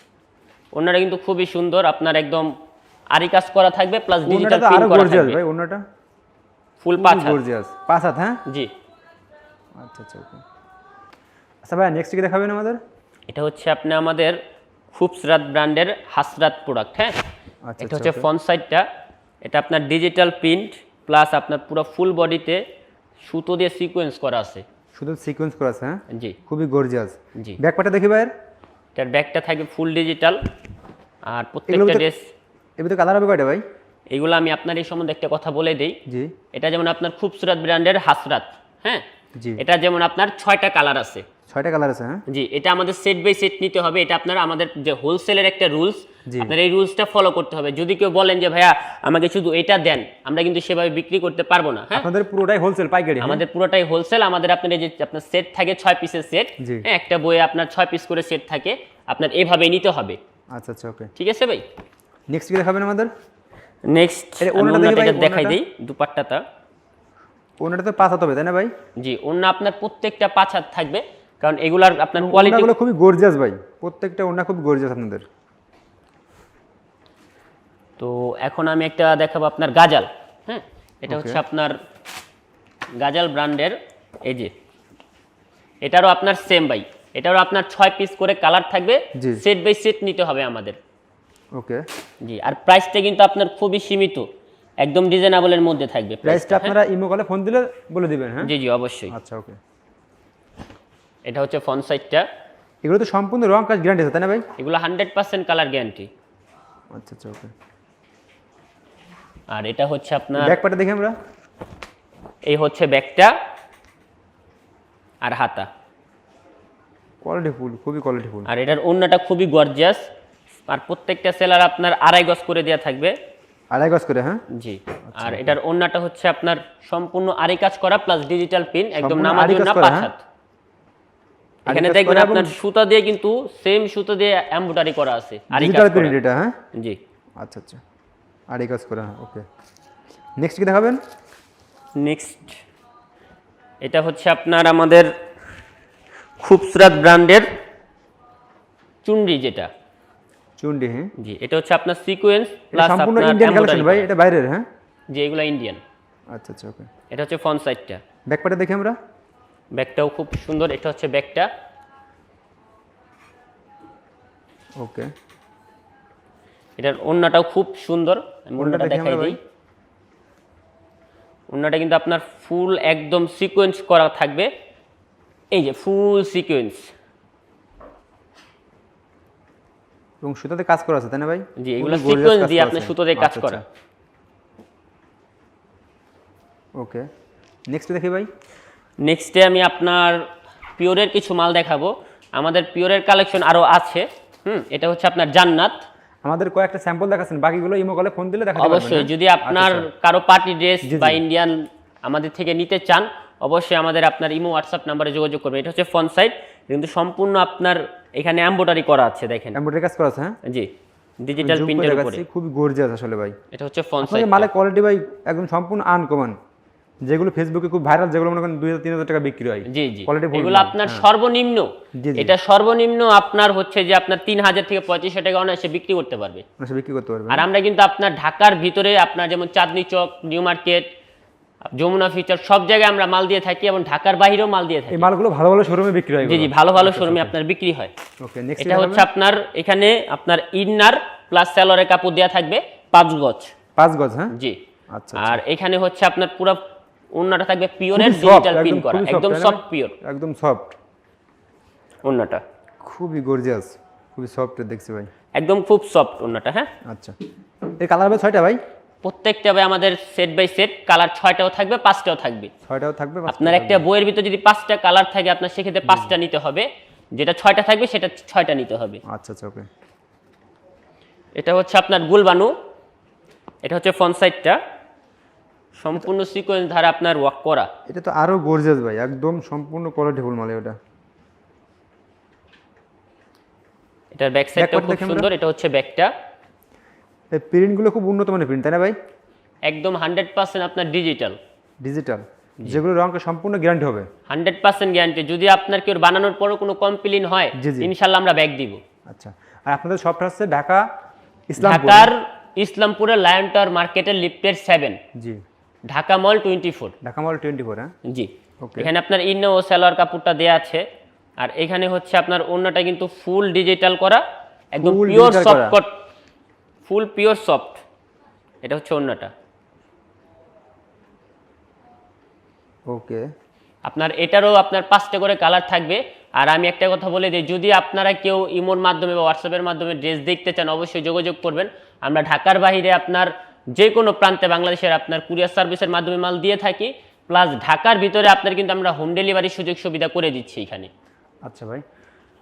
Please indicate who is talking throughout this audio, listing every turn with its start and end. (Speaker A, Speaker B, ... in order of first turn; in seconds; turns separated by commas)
Speaker A: 0.7-2.5, Speaker A: 3.1-5.4, Speaker B: 4.2-5.8, Speaker A: 6.8-7.4, Speaker B: 7.0-8.4, Speaker A: 8.4-8.7, Speaker B: 9.8-10.4, Speaker B: 11.6-12.8, Speaker A: 13.3-17.2, Speaker B: 17.6-18.3, Speaker A: 17.8-18.9, Speaker A: 19.4-22.6, Speaker A: 23.2-24.6, Speaker B: 24.9-28.3, Speaker A: 26.1-26.4, Speaker A: 27.3-27.6, Speaker A: 28.9-30.5, Speaker A: 31.2-32.3, Speaker B: 31.7-32.1, Speaker B: 32.8-33.6, Speaker A: 34.1-36.0, Speaker B: 36.0-36.3, Speaker A: 36.5-39.0, Speaker B: 39.3-39.6, Speaker A: 39.6-41.2, Speaker B: 41.5-42.2, Speaker A: 42.3-52.1, Speaker B: 46.2-46.5, Speaker B: 51.9-53.4, Speaker A: 53.2-60.2, Speaker B: 56.6-56.9, Speaker B: 60.5-61.1, Speaker A: 61.1-61.6, Speaker B: 62.3-63.1, Speaker A: 63.8-66.4, Speaker B: 64.4-65.6, Speaker B: 67.6-68.7, Speaker A: 69.0-72.7, Speaker B: 72.2-75.2, Speaker A: 78.0-81.8, Speaker B: 81.1-81.4, Speaker A: 82.9-84.5, Speaker A: 85.8-90.8, Speaker B: 89.1-89.4, Speaker B: 91.5-91.8, Speaker A: 92.2-94.3, Speaker A: 94.8-96.8, Speaker B: 96.2-98.5, Speaker A: 98.4-99.1, Speaker B: 99.1-99.6, Speaker A: 101.2-102.2, Speaker B: 102.8-104.5, Speaker A: 104.6-106.1, Speaker B: 106.9-107.5, Speaker A: 109.5-110.5, Speaker B: 110.4-111.2, Speaker A: 112.4-113.3, Speaker A: 115.2-115.7, Speaker B: 117.2-118.5, Speaker A: 118.5-120.1, Speaker A: 120.7-123.1, Speaker B: 123.7-124.4, Speaker A: 124.5-130.2, Speaker B: 125.0-125.6, Speaker B: 128.9-130.1, Speaker A: 131.7-136.2, Speaker B: 131.7-132.5, Speaker B: 135.5-136.6, Speaker B: 137.4-137.8, Speaker B: 138.5-139.4, Speaker B: 140.4-141.0, Speaker A: 141.9-142.6, Speaker A: 143.8-145.1, Speaker A: 146.4-147.5, Speaker A: 149.0-149.7, Speaker B: 150.6-151.1, Speaker A: 151.2-154.1, Speaker B: 152.7-154.7, Speaker A: 155.1-155.8, Speaker B: 156.3-156.9, Speaker A: 157.1-158.0, Speaker B: 158.3-159.0, Speaker A: 159.7-161.5, Speaker B: 164.8-165.1, Speaker A: 166.8-169.4, Speaker B: 168.6-169.4, Speaker A: 171.5-174.5, Speaker A: 175.5-176.9, Speaker B: 180.2-183.6, Speaker A: 181.6-183.6, Speaker B: 186.8-187.1, Speaker B: 187.7-188.3, Speaker A: 189.0-195.8, Speaker B: 196.2-199.9, Speaker A: 198.6-209.6, Speaker B: 200.8-201.2, Speaker B: 209.5-210.4, Speaker A: 210.4-210.7, Speaker A: 211.2-212.2, Speaker B: 211.4-213.4, Speaker A: 213.5-214.5, Speaker B: 214.0-216.4, Speaker B: 217.0-221.0, Speaker A: 219.7-226.4, Speaker B: 221.9-222.3, Speaker B: 226.6-227.4, Speaker A: 227.3-230.9, Speaker A: 231.6-235.1, Speaker B: 234.9-237.3, Speaker A: 236.2-237.9, Speaker B: 238.2-239.1, Speaker A: 238.6-243.5, Speaker B: 243.8-244.3, Speaker A: 244.3-244.6, Speaker B: 244.9-245.4, Speaker A: 245.1-249.9, Speaker B: 247.9-250.7, Speaker A: 252.0-252.4, Speaker B: 252.8-255.1, Speaker A: 255.3-256.7, Speaker B: 256.8-257.2, Speaker B: 257.8-258.6, Speaker A: 259.0-262.5, Speaker B: 262.6-263.8, Speaker A: 263.3-269.0, Speaker B: 265.9-266.1, Speaker B: 269.1-269.7, Speaker A: 271.3-272.5, Speaker A: 273.6-274.6, Speaker A: 275.7-277.7, Speaker B: 277.9-280.8, Speaker A: 284.1-286.1, Speaker B: 284.5-285.3, Speaker B: 287.3-288.9, Speaker A: 289.6-291.4, Speaker B: 291.8-294.1, Speaker A: 294.3-298.8, Speaker B: 297.6-297.9, Speaker B: 299.1-300.9, Speaker B: 301.5-302.1, Speaker A: 301.6-305.0, Speaker B: 305.1-305.4, Speaker A: 305.9-306.9, Speaker B: 307.0-307.9, Speaker A: 308.1-310.8, Speaker B: 308.6-308.9, Speaker A: 311.4-316.0, Speaker B: 314.8-315.8, Speaker A: 316.9-317.8, Speaker A: 318.6-319.3, Speaker B: 322.9-323.2, Speaker A: 323.8-340.9, Speaker B: 341.4-341.8